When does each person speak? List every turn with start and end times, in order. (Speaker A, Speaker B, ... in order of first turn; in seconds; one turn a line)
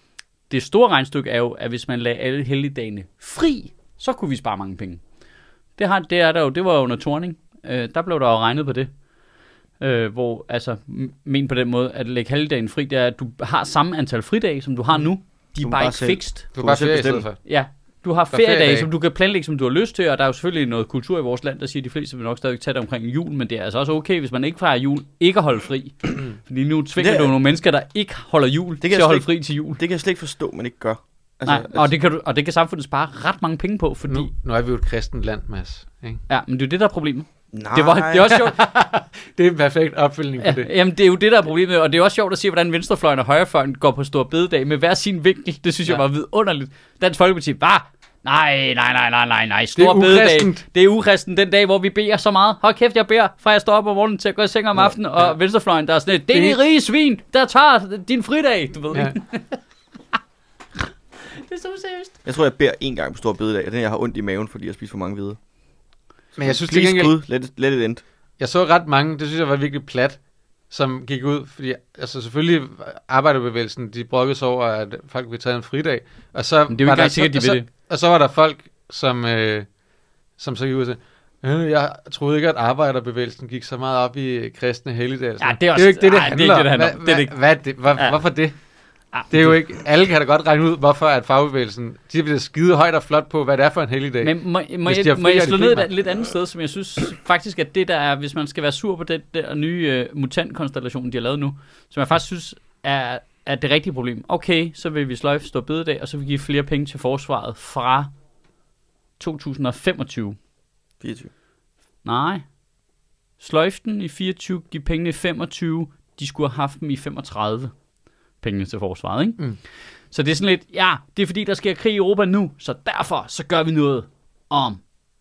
Speaker A: 0.5-5.0
Speaker A: 5.8-8.9
Speaker A: 9.8-16.5
Speaker B: 15.6-17.3
Speaker C: 16.6-17.4
Speaker A: 17.4-29.8
Speaker C: 18.3-18.9
Speaker B: 27.0-27.4
Speaker B: 28.8-31.9
Speaker A: 31.4-34.3
Speaker C: 34.1-36.2
Speaker A: 36.3-38.8
Speaker B: 37.5-38.3
Speaker C: 38.3-40.7
Speaker A: 40.4-59.6
Speaker C: 49.8-50.6
Speaker C: 56.3-56.6
Speaker A: 61.2-62.1
Speaker B: 62.2-65.4
Speaker B: 66.4-68.0
Speaker C: 66.4-67.1
Speaker C: 68.4-70.2
Speaker C: 70.7-79.7
Speaker A: 76.7-77.7
Speaker C: 80.4-88.5
Speaker A: 85.4-87.3
Speaker A: 89.1-89.6
Speaker C: 89.3-95.9
Speaker A: 94.2-108.1
Speaker A: 109.2-110.4
Speaker B: 111.0-111.3
Speaker A: 112.0-112.5
Speaker A: 113.4-117.7
Speaker A: 118.4-119.4
Speaker A: 120.1-124.8